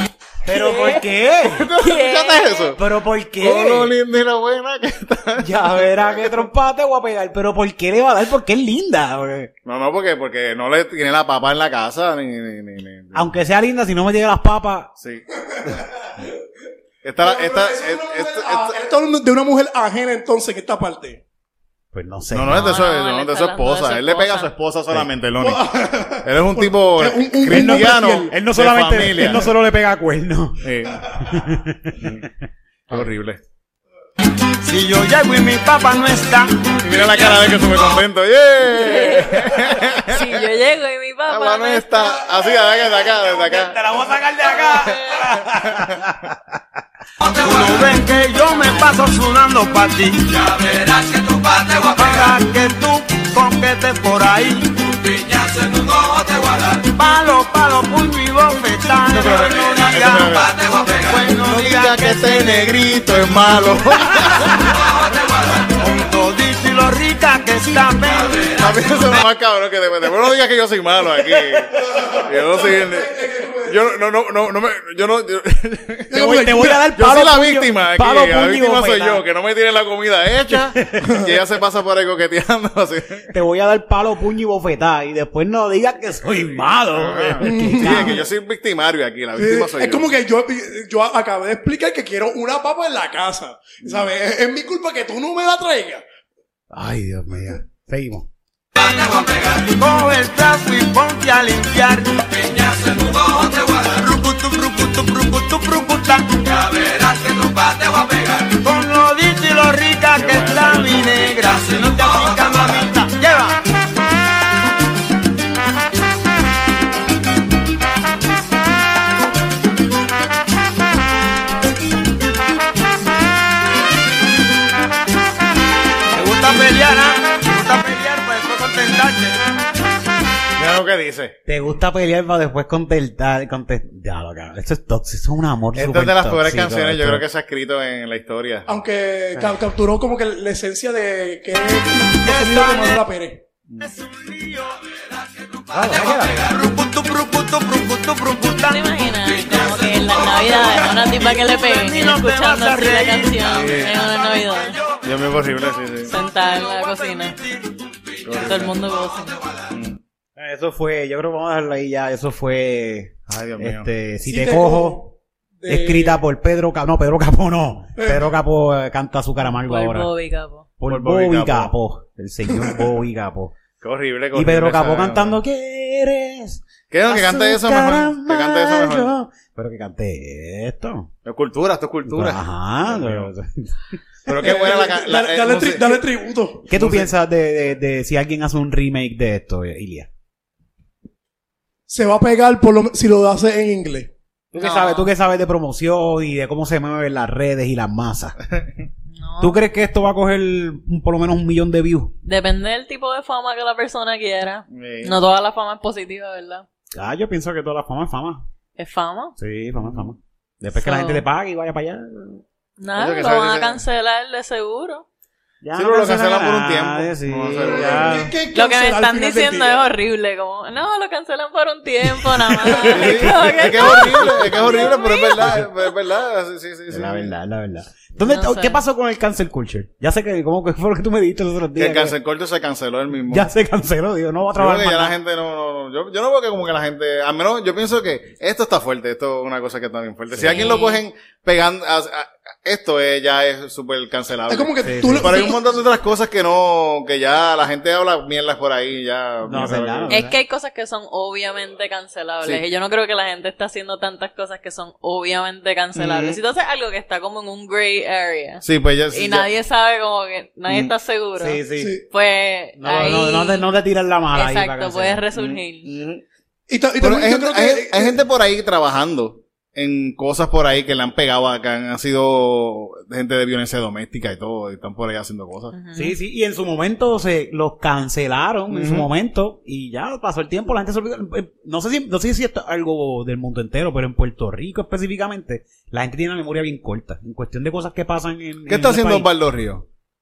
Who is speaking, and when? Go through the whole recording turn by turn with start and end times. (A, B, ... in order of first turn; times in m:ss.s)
0:00.4-0:01.7 A
0:00.5-0:01.0 B
0:01.5-0:02.8 C
0:01.8-0:02.7 B
0:02.8-0:03.9 A
0:03.4-0:06.3 C
0:05.4-0:09.5 A
0:09.6-0:13.3 C
0:13.1-0:14.9 A
0:15.0-0:15.2 C
0:17.0-0:18.7 C
0:17.2-0:21.2 D
0:21.9-0:22.7 A
0:22.3-0:29.5 C
0:22.5-0:24.5 B
0:25.4-0:28.3 D
0:27.4-0:32.1 A
0:30.6-0:31.0 C
0:32.9-0:33.4 C
0:34.6-0:36.8 E
0:36.8-0:40.4 C
0:38.7-0:42.2 B
0:41.3-0:43.8 C
0:43.4-0:46.4 A
0:44.8-0:46.1 C
0:47.2-1:02.8 E
0:59.1-1:04.8 C
1:05.7-1:08.6 E
1:08.5-1:16.1 C
1:11.8-1:13.8 D
1:16.1-1:16.9 D
1:16.1-1:19.2 A
1:16.9-1:23.3 C
1:20.7-1:21.0 A
1:23.3-1:28.2 A
1:26.9-1:30.1 C
1:27.4-1:28.2 D
1:29.4-1:36.0 D
1:36.7-1:38.3 A
1:38.8-1:53.6 E
1:50.1-1:51.9 C
2:06.1-2:09.4 E
2:10.6-2:11.4 C
2:11.5-2:17.2 A
2:15.7-2:18.7 C
2:18.7-2:23.4 D
2:22.2-2:23.0 E
2:23.8-2:24.8 E
2:25.4-2:29.0 E
2:25.7-2:26.5 A
2:28.7-2:34.8 B
2:30.4-2:35.1 E
2:33.5-2:34.0 C
2:35.0-2:36.1 C
2:36.1-2:37.4 B
2:36.4-2:37.8 E
2:38.2-2:38.7 C
2:38.4-2:39.4 B
2:39.7-2:40.0 C
2:40.4-2:45.0 A
2:43.3-2:43.9 C
2:44.2-2:46.2 D
2:45.7-2:50.1 A
2:48.0-2:48.3 D
2:49.6-2:50.6 B
2:50.8-2:53.5 A
2:50.9-2:51.7 C
2:53.8-2:55.4 C
2:54.3-3:01.1 A
2:56.9-2:59.1 C
3:01.2-3:03.3 C
3:02.1-3:03.9 A
3:04.2-3:06.0 C
3:04.4-3:06.7 D
3:06.7-3:10.1 A
3:06.7-3:07.1 C
3:11.9-3:14.1 D
3:14.5-3:18.4 A
3:14.5-3:15.1 B
3:19.1-3:19.6 B
3:19.4-3:22.1 A
3:22.2-3:26.6 B
3:24.7-3:25.2 C
3:26.9-3:28.4 A
3:28.8-3:29.3 B
3:29.4-3:32.4 A
3:30.8-3:31.2 B
3:32.8-3:35.0 B
3:32.9-3:33.8 C
3:35.6-3:38.3 A
3:35.7-3:38.3 C
3:37.7-3:39.9 D
3:38.5-3:45.6 B
3:42.2-3:44.7 A
3:42.9-3:47.3 C
3:46.9-3:52.2 A
3:48.2-3:48.8 B
3:51.8-3:53.5 C
3:53.3-3:55.2 A
3:54.5-4:10.2 C
4:00.5-4:01.0 B
4:04.5-4:05.6 D
4:04.8-4:05.5 A
4:09.4-4:10.3 A
4:10.1-4:23.7 B
4:15.9-4:16.4 C
4:18.6-4:19.5 C
4:21.4-4:22.0 A
4:21.8-4:22.0 D
4:22.8-4:25.2 A
4:24.3-4:25.9 B
4:25.3-4:26.2 C
4:26.7-4:28.1 D
4:27.0-4:35.7 C
4:35.7-4:36.2 B
4:35.9-4:49.3 A
4:38.7-4:39.1 C
4:48.7-4:49.8 C